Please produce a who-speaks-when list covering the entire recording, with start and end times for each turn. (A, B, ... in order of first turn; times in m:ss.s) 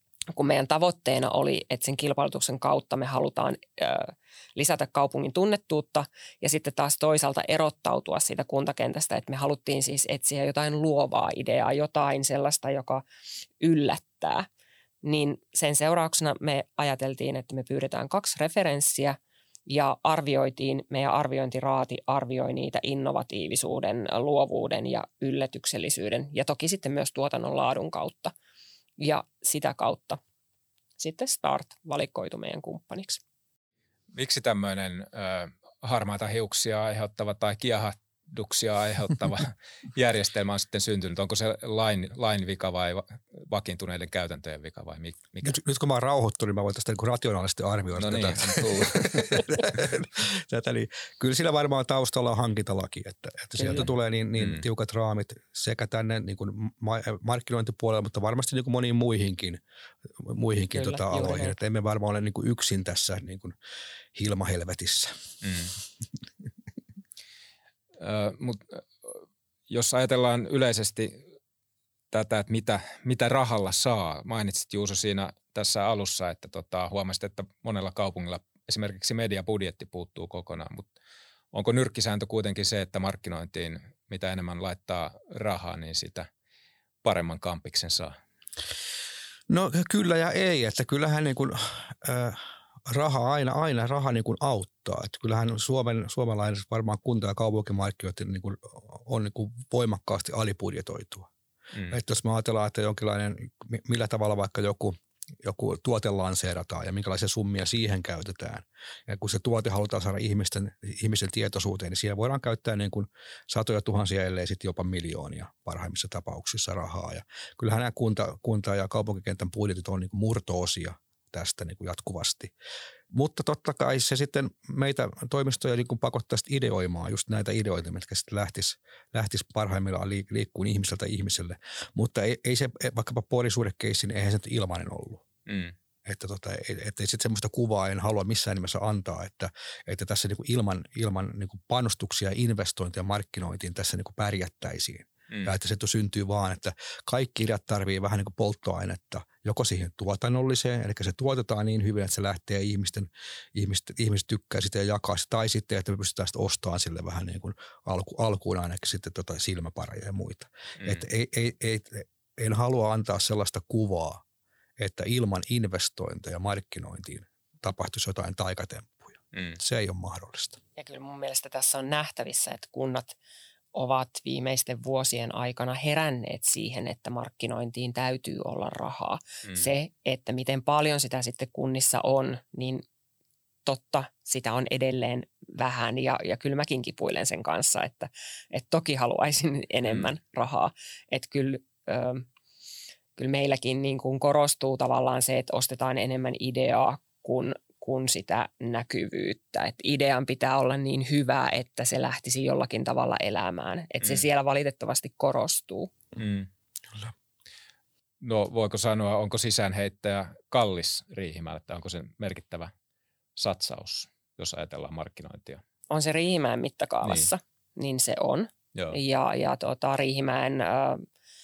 0:00.3-0:13.0 A
0:13.6-0:14.5 A
0:15.0-0:28.3 A
0:29.0-0:30.2 A
0:31.0-0:33.2 A
0:34.1-0:45.6 B
0:45.4-0:59.6 C
0:48.0-0:49.6 B
0:53.6-0:53.8 A
1:00.2-1:03.6 C
1:00.7-1:01.6 A
1:04.2-1:05.1 C
1:05.4-1:05.7 B
1:08.0-1:11.2 B
1:12.1-1:20.9 B
1:21.5-1:26.3 B
1:27.0-1:28.2 B
1:29.5-1:41.3 C
1:41.9-2:02.5 C
2:03.1-2:15.3 C
2:15.5-2:15.8 B
2:16.0-2:44.2 C
2:40.8-2:41.1 B
2:44.8-2:50.6 C
2:49.3-2:49.6 B
2:50.8-2:53.2 A
2:53.7-3:02.8 A
3:03.6-3:12.3 A
3:13.2-3:25.9 A
3:26.2-3:26.5 B
3:28.2-3:32.7 B
3:33.4-3:35.6 B
3:35.9-3:41.0 A
3:37.0-3:37.3 B